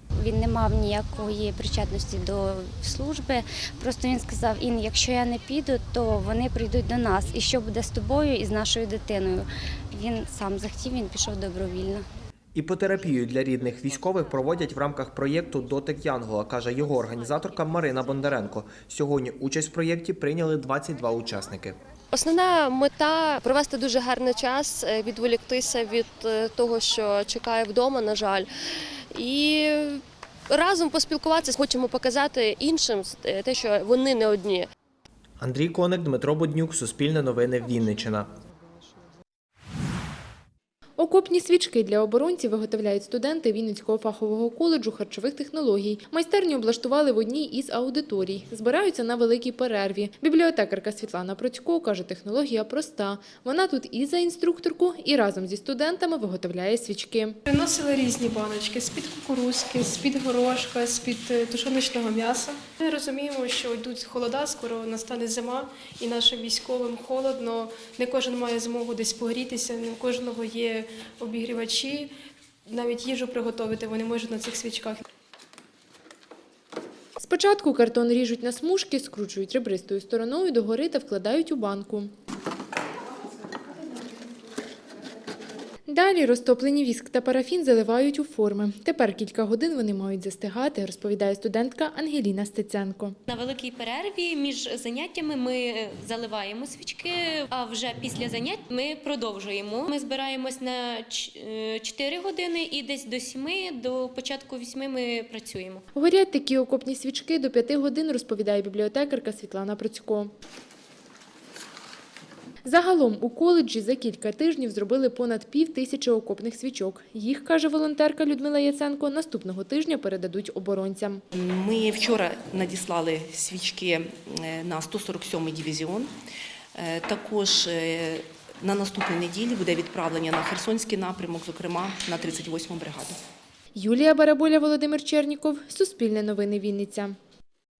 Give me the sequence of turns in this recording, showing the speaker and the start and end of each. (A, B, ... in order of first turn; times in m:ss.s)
0:00.2-0:12.0 A
0:12.5-0:21.8 B
0:22.1-0:28.4 C
0:29.2-0:30.0 C
0:30.5-0:34.6 C
0:35.4-0:38.3 B
0:41.0-0:57.4 D
0:57.5-1:12.1 E
1:12.7-1:15.0 E
1:17.2-1:22.1 D
1:25.9-1:33.1 D
1:33.3-1:45.8 F
1:45.9-1:50.3 D
1:52.6-2:01.2 D
2:01.3-2:06.1 G
2:06.8-2:13.2 G
2:13.7-2:17.2 D